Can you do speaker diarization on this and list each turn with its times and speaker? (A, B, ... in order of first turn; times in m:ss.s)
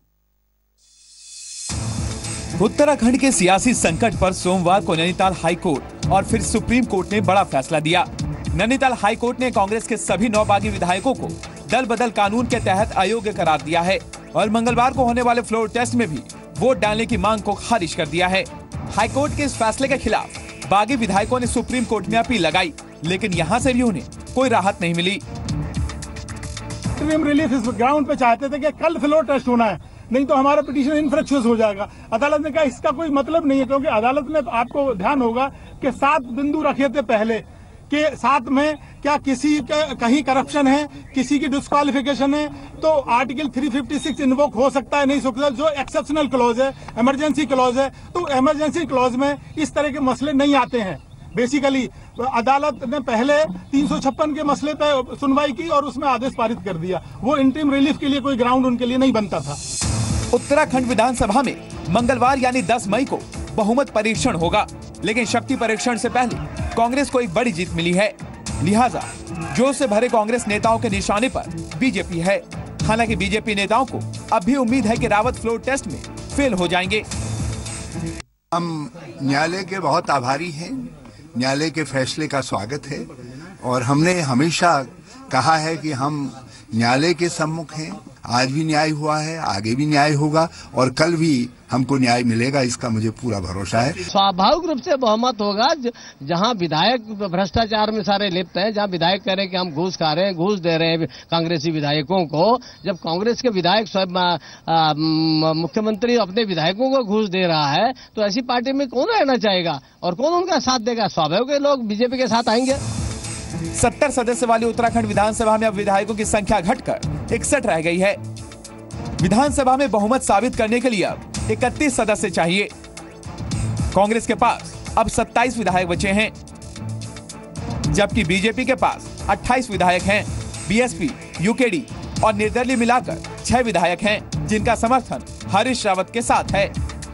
0:02.6-0:25.2 A
0:27.0-0:59.6 B
1:00.3-1:17.0 A
1:18.5-1:23.1 C
1:23.6-1:34.0 C
1:34.1-1:52.8 D
1:53.8-1:58.2 A
1:59.2-2:02.7 A
2:03.9-2:06.3 A
2:07.9-2:16.7 A